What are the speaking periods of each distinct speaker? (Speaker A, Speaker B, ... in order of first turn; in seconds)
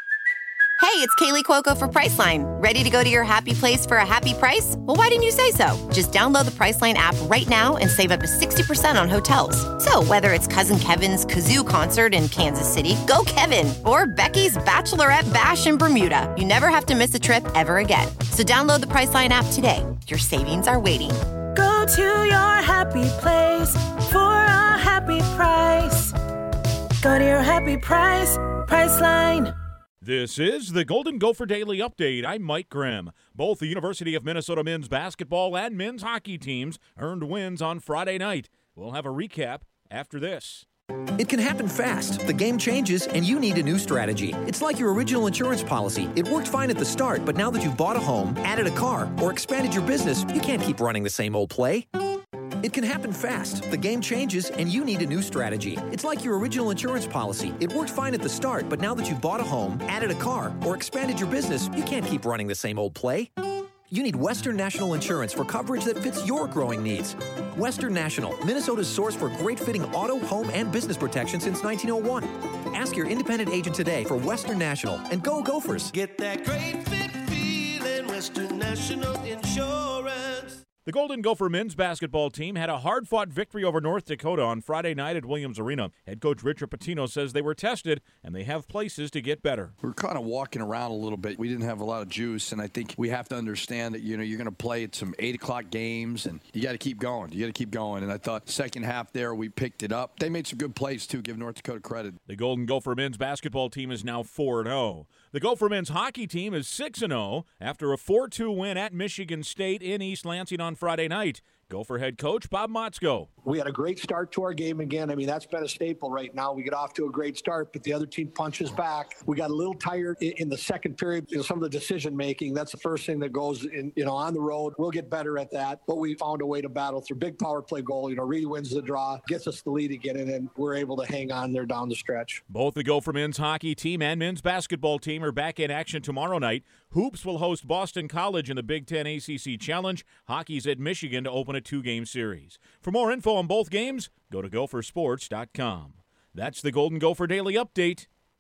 Speaker A: 0.8-21.2
Speaker B: 21.5-26.1, 27.0-29.5
Speaker C: 30.0-40.7, 80.8-89.7, 102.3-113.3, 132.5-148.1
Speaker D: 41.2-51.9, 52.6-63.3, 63.9-75.9
Speaker E: 75.9-80.6
Speaker F: 89.8-102.2
Speaker G: 113.4-132.4